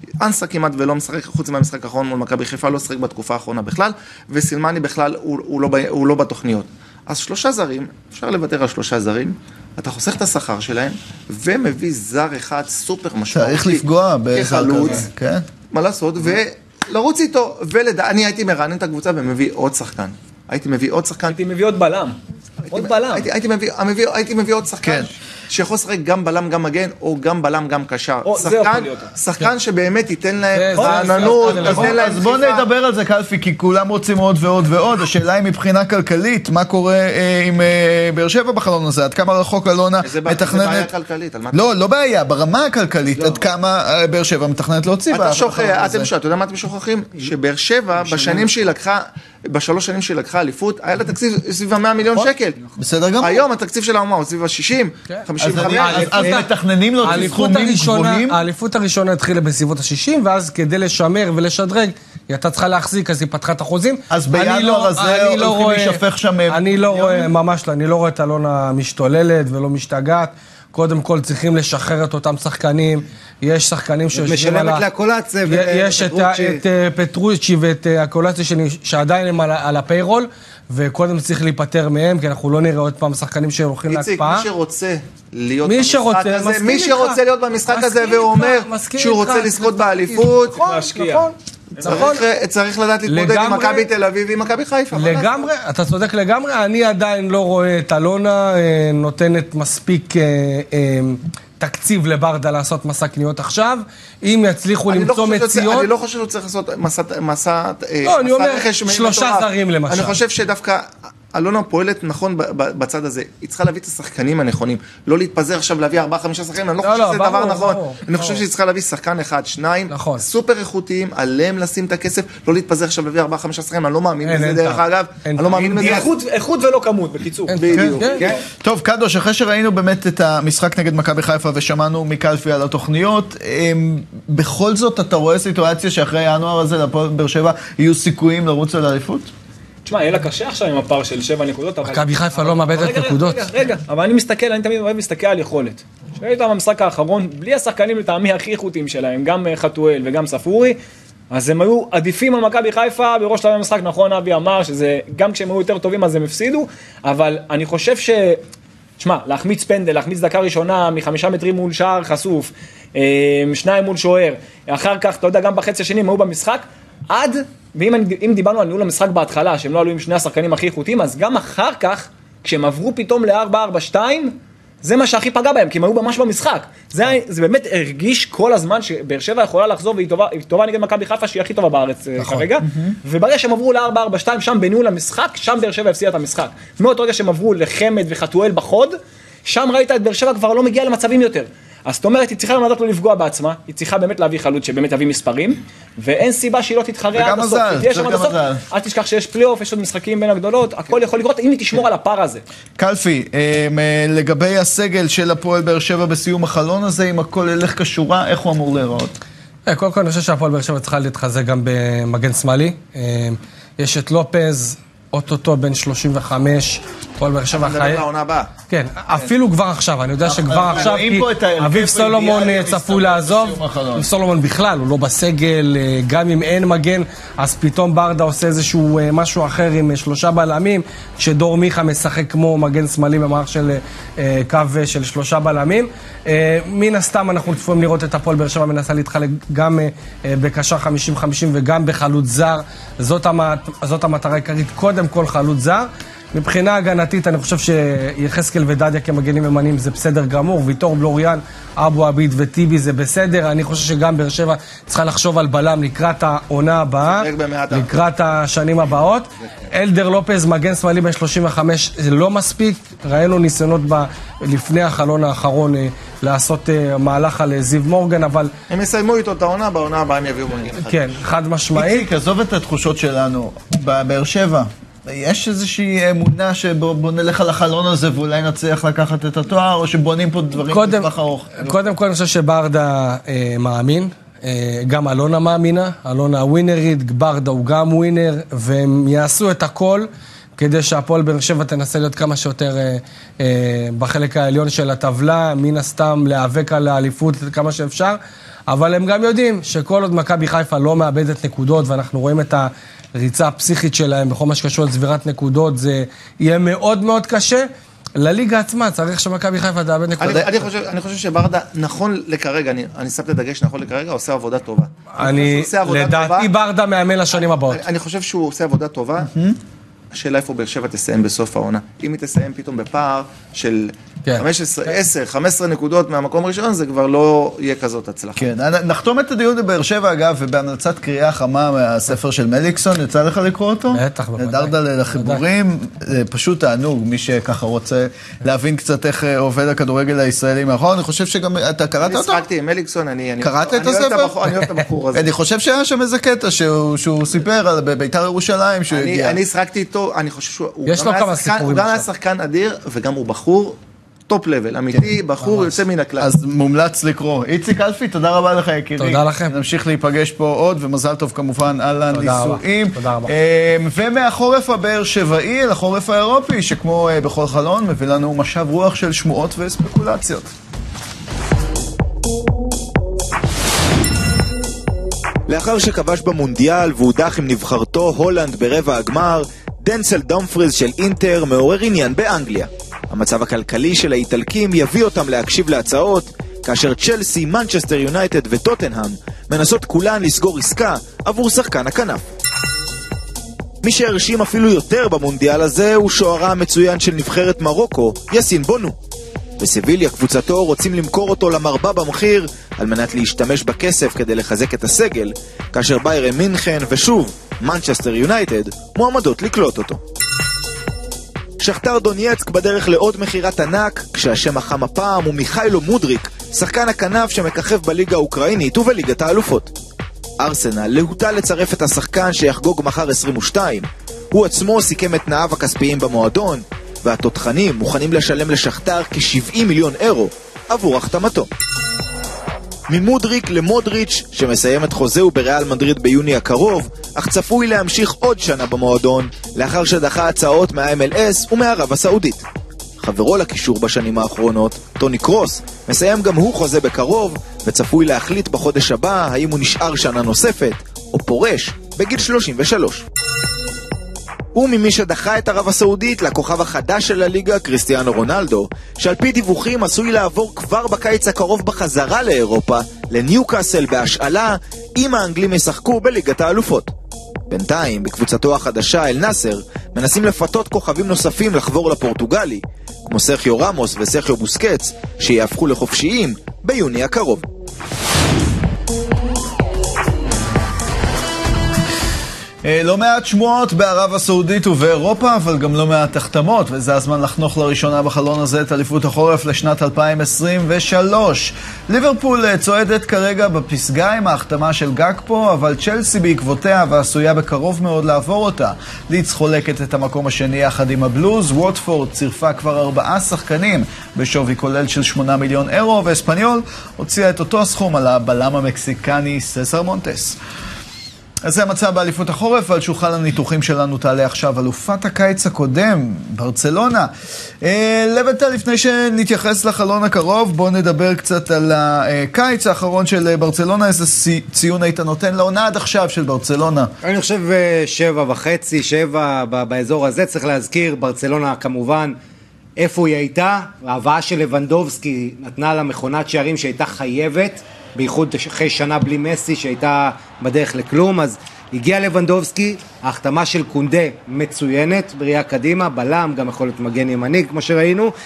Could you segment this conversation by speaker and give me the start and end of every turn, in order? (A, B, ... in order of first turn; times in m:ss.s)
0:00.2-0:15.1 A
0:13.3-0:15.5 B
0:15.7-0:21.4 A
0:21.3-0:22.2 C
0:22.7-0:32.6 A
0:22.7-0:23.3 C
0:24.8-0:25.1 B
0:28.2-0:29.1 C
0:30.5-0:32.0 D
0:30.7-0:31.9 C
0:31.6-0:40.9 B
0:40.0-0:41.7 A
0:41.5-0:46.1 B
0:43.1-0:43.4 E
0:45.1-0:52.6 A
0:48.0-0:48.7 E
0:52.1-0:53.4 B
0:53.2-0:56.4 A
0:55.1-0:56.4 D
0:55.4-0:58.4 B
0:57.0-1:14.8 D
1:04.1-1:07.3 B
1:14.1-1:16.6 E
1:15.5-1:24.5 D
1:23.9-1:30.7 A
1:25.6-1:32.2 D
1:30.6-1:32.2 C
1:31.8-1:35.5 A
1:33.1-1:33.9 D
1:34.9-1:45.9 D
1:44.9-2:06.1 A
1:48.0-1:50.2 D
1:56.8-1:58.4 D
1:59.9-2:00.2 D
2:04.2-2:05.6 D
2:05.5-2:06.1 E
2:05.8-2:08.3 C
2:07.5-2:08.3 D
2:07.5-2:08.3 A
2:07.7-2:08.0 B
2:08.0-2:08.4 E
2:08.6-2:19.3 B
2:19.8-2:30.8 C
2:21.8-2:23.6 D
2:31.3-2:38.4 C
2:39.0-3:08.9 C
3:02.3-3:03.0 B
3:09.4-3:22.4 C
3:17.1-3:18.6 B
3:22.8-3:29.2 B
3:29.7-3:38.0 D
3:37.5-3:38.5 A
3:38.7-4:28.5 D
3:40.2-3:44.0 B
4:17.0-4:18.0 A
4:28.7-4:31.2 A
4:30.8-4:32.0 D
4:31.7-4:41.8 B
4:40.7-4:41.1 D
4:41.6-4:58.2 D
4:58.7-5:10.4 D
5:10.2-5:16.5 A
5:15.1-5:17.8 D
5:17.3-5:19.3 A
5:19.2-5:19.6 B
5:20.1-5:28.4 A
5:28.4-5:42.4 B
5:33.9-5:35.4 D
5:42.0-5:45.3 A
5:43.4-5:44.4 B
5:45.1-5:49.4 B
5:48.9-5:53.8 A
5:50.8-5:52.0 D
5:54.3-5:56.3 A
5:55.4-5:55.7 D
5:56.2-6:10.5 B
5:59.0-5:59.5 D
6:02.1-6:03.3 D
6:15.5-6:32.2 F
6:33.8-6:39.0 F
6:39.6-6:50.0 F
6:51.6-6:59.7 F
7:00.4-7:11.5 F
7:12.9-7:22.4 F
7:23.0-7:33.0 F
7:34.5-7:46.9 F
7:47.5-7:57.4 F
8:02.6-8:30.4 B
8:31.4-8:37.1 B
8:37.6-8:46.9 B
8:47.0-8:52.2 E
8:52.8-9:08.1 E